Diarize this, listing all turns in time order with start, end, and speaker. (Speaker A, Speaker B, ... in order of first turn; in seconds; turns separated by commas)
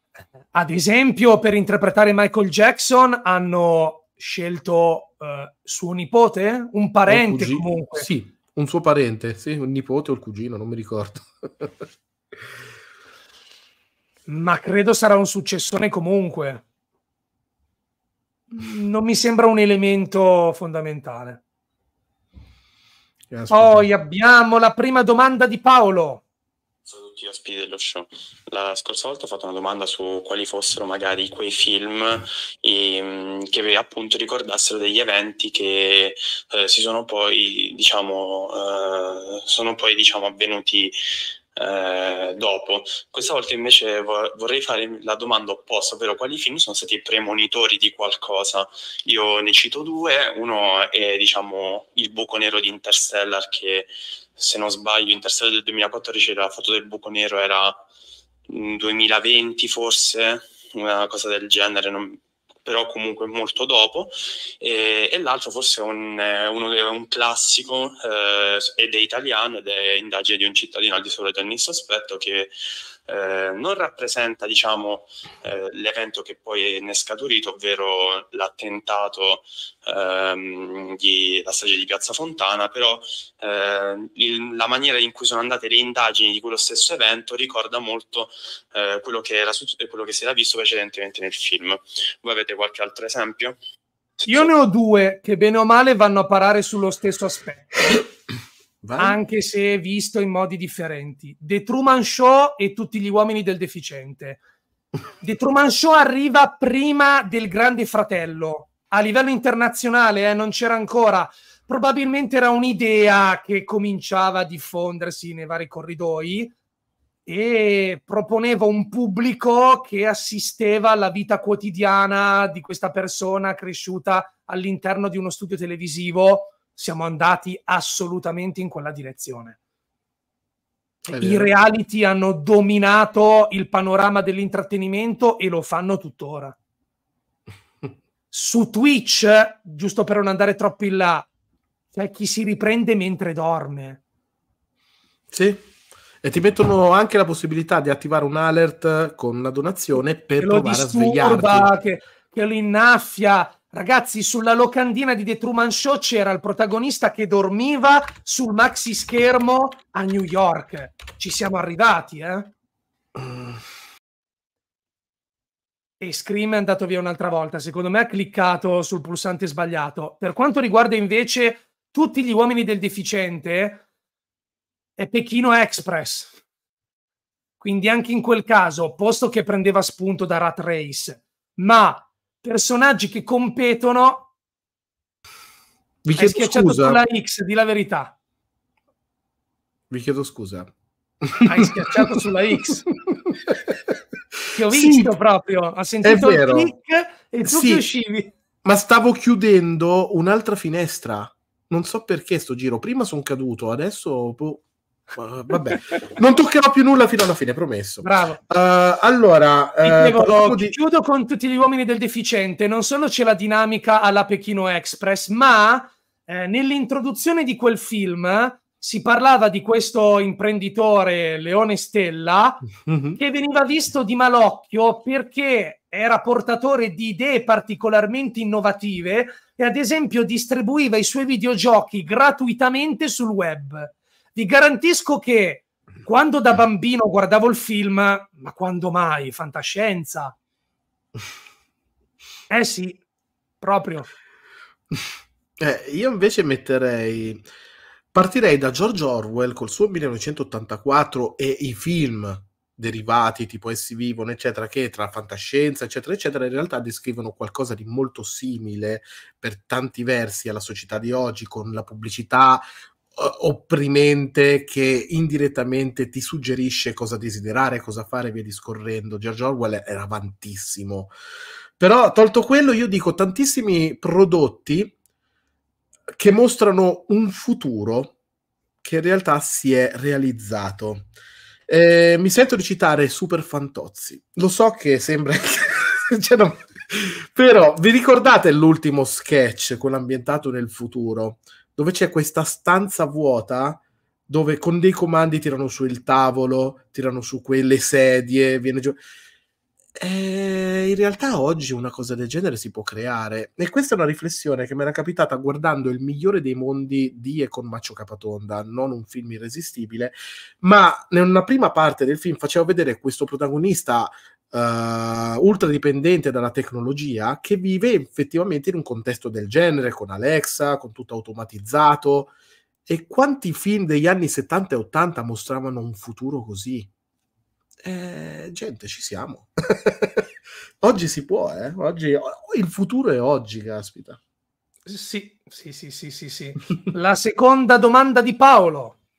Speaker A: 0.5-8.1, Speaker B: 7.1-11.7, Speaker A: 14.3-16.6, Speaker A: 18.5-21.4, Speaker B: 23.3-23.9, Speaker A: 23.5-26.2, Speaker C: 26.9-41.0, Speaker C: 41.5-57.8, Speaker C: 58.5-72.5, Speaker C: 73.1-93.6, Speaker B: 94.2-94.5, Speaker A: 94.3-98.0, Speaker B: 98.8-99.2, Speaker A: 99.0-104.4, Speaker A: 105.2-116.5, Speaker A: 117.2-129.6, Speaker B: 131.1-131.5, Speaker A: 131.1-136.5, Speaker A: 138.3-141.3, Speaker A: 141.9-144.0, Speaker B: 145.3-145.7, Speaker B: 146.2-151.7, Speaker A: 150.4-162.5, Speaker B: 163.2-163.6, Speaker A: 166.0-173.8, Speaker A: 175.0-176.3, Speaker A: 177.6-184.3, Speaker B: 186.0-187.0, Speaker A: 186.2-188.1, Speaker B: 189.9-190.7, Speaker B: 191.2-192.0, Speaker A: 191.4-192.8, Speaker B: 192.9-194.0, Speaker A: 194.5-198.3, Speaker B: 194.7-195.1, Speaker B: 196.0-196.7, Speaker B: 197.4-197.8, Speaker B: 198.6-204.6, Speaker B: 205.2-210.8, Speaker A: 208.0-208.4, Speaker A: 209.8-222.6, Speaker B: 222.8-223.2, Speaker A: 223.2-240.3, Speaker A: 242.5-243.0, Speaker A: 243.6-244.1, Speaker B: 245.6-247.4, Speaker B: 248.1-262.6, Speaker B: 263.1-271.1, Speaker B: 271.8-274.9, Speaker B: 276.2-278.1, Speaker B: 278.8-281.1, Speaker B: 281.7-299.0, Speaker B: 299.9-322.3, Speaker B: 322.9-326.9, Speaker B: 327.8-330.3, Speaker B: 330.8-334.2, Speaker A: 334.9-339.0